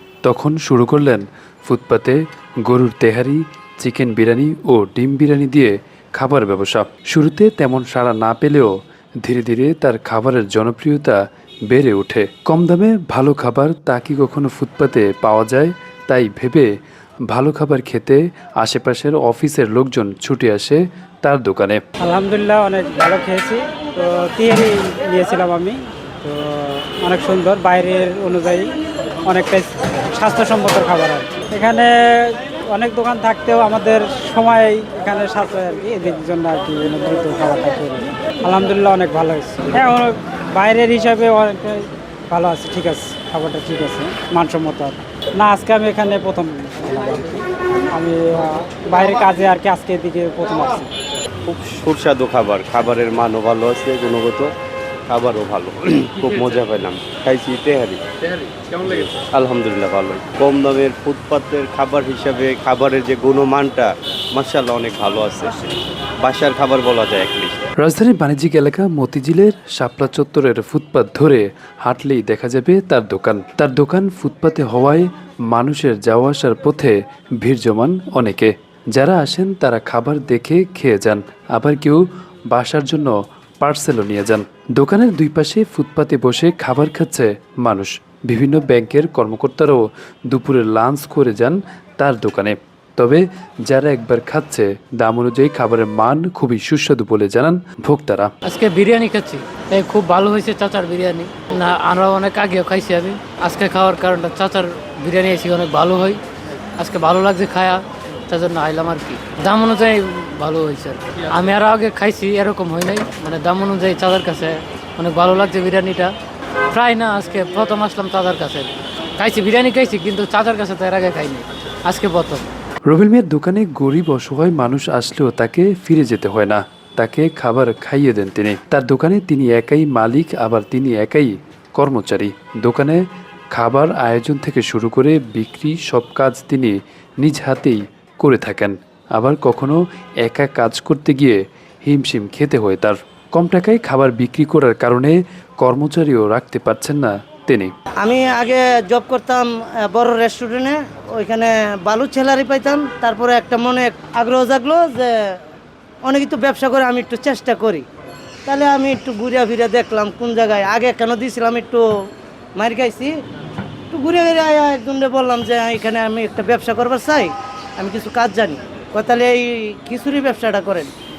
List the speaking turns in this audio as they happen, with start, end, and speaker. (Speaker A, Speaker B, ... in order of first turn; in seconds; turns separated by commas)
Speaker A: 0.2-16.7, Speaker A: 17.3-21.8, Speaker B: 22.0-50.9, Speaker C: 51.5-54.5, Speaker C: 55.1-58.0, Speaker C: 58.6-65.7, Speaker C: 66.2-67.6, Speaker A: 67.8-98.3, Speaker D: 98.5-106.2, Speaker D: 106.8-116.1, Speaker D: 116.7-122.5, Speaker A: 122.9-147.7, Speaker E: 148.0-155.4, Speaker E: 156.1-157.8, Speaker E: 158.4-161.8, Speaker E: 162.6-163.1, Speaker E: 163.9-170.9